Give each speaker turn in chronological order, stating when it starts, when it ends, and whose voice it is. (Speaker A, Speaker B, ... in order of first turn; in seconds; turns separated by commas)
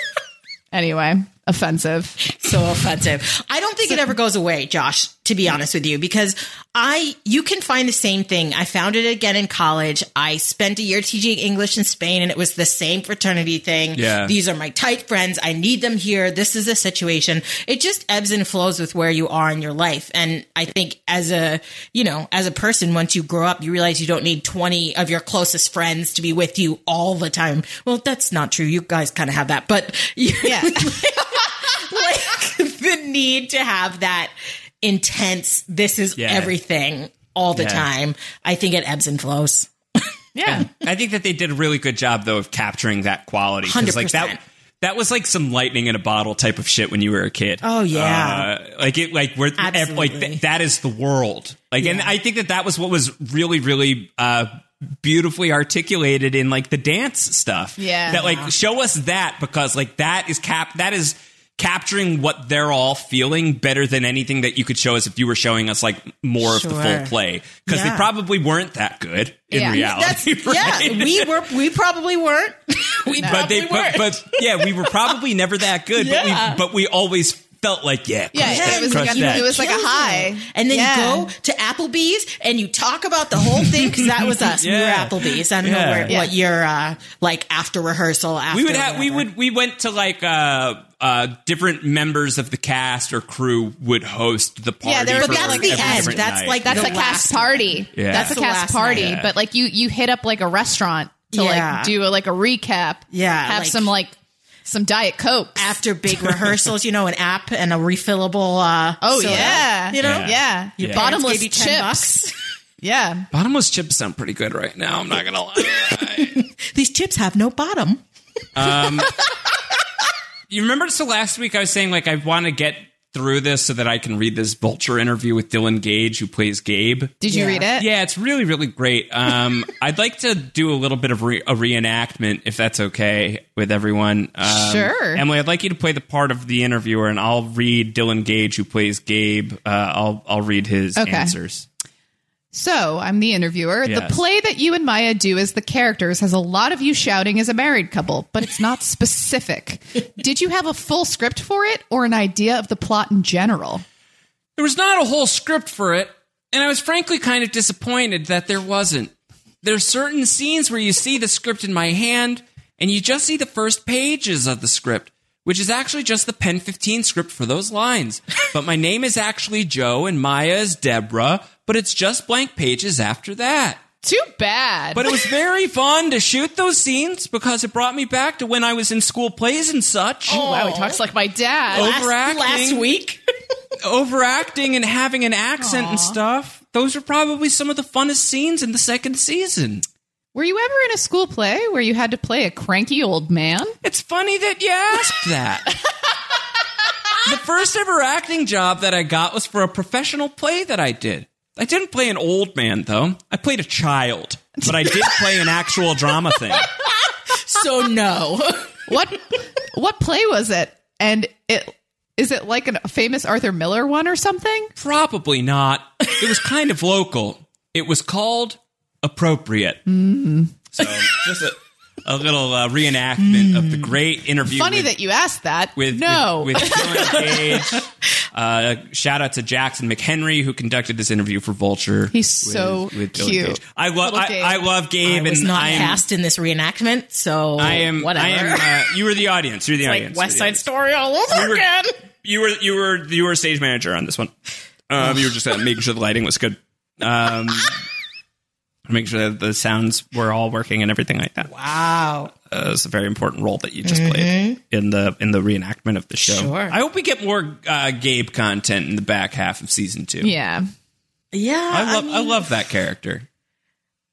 Speaker A: 0.7-2.2, Speaker B: 2.3-40.0, Speaker C: 13.9-14.3, Speaker A: 30.4-31.0, Speaker C: 36.2-36.5, Speaker C: 37.5-37.9, Speaker A: 40.3-40.7, Speaker C: 40.5-71.3, Speaker B: 43.6-44.4, Speaker B: 47.6-48.5, Speaker B: 49.6-50.4, Speaker B: 51.8-52.1, Speaker A: 57.8-58.2, Speaker B: 58.1-58.5, Speaker B: 66.4-67.1, Speaker B: 67.7-68.1, Speaker A: 69.5-69.8, Speaker B: 69.6-75.1, Speaker C: 73.1-79.5, Speaker B: 76.0-76.6, Speaker A: 78.3-81.3, Speaker B: 78.4-89.2, Speaker C: 83.6-86.2, Speaker A: 86.1-86.3, Speaker C: 88.5-97.0, Speaker A: 94.8-104.1, Speaker B: 95.2-99.2, Speaker C: 97.9-98.4, Speaker C: 98.9-99.3, Speaker B: 101.3-102.0, Speaker B: 103.1-103.9, Speaker A: 104.7-105.8, Speaker B: 105.6-112.3, Speaker A: 109.0-112.1, Speaker C: 109.3-111.1, Speaker A: 112.8-113.3, Speaker C: 113.3-116.3, Speaker B: 115.8-118.0, Speaker C: 118.5-119.2, Speaker C: 120.5-127.2, Speaker A: 127.2-127.9, Speaker B: 127.3-127.6, Speaker C: 127.8-141.7, Speaker A: 134.5-135.2, Speaker A: 141.0-141.3, Speaker A: 142.5-153.8, Speaker C: 143.8-144.2, Speaker C: 154.6-173.8, Speaker A: 174.0-175.1, Speaker C: 174.9-180.4, Speaker B: 180.3-181.0, Speaker A: 180.3-181.9, Speaker B: 181.7-183.2, Speaker C: 181.7-182.8, Speaker C: 183.8-189.8, Speaker A: 185.6-186.2, Speaker A: 190.3-193.8, Speaker C: 193.8-195.7, Speaker C: 197.2-206.7, Speaker B: 206.6-208.8, Speaker A: 208.9-214.7, Speaker C: 214.8-219.8, Speaker A: 219.9-220.5, Speaker C: 220.7-224.9, Speaker B: 223.2-223.9, Speaker A: 224.5-227.1, Speaker C: 225.8-236.0, Speaker B: 226.6-227.8, Speaker A: 232.1-234.6, Speaker B: 235.0-238.8, Speaker C: 237.6-240.6, Speaker B: 239.8-241.9, Speaker C: 241.3-241.7, Speaker C: 242.2-244.3, Speaker C: 244.9-247.8, Speaker C: 248.9-251.5, Speaker B: 251.5-252.3, Speaker C: 252.5-260.3, Speaker B: 253.8-254.6, Speaker B: 256.2-256.7, Speaker A: 260.2-260.7, Speaker B: 261.3-262.5, Speaker C: 261.7-263.2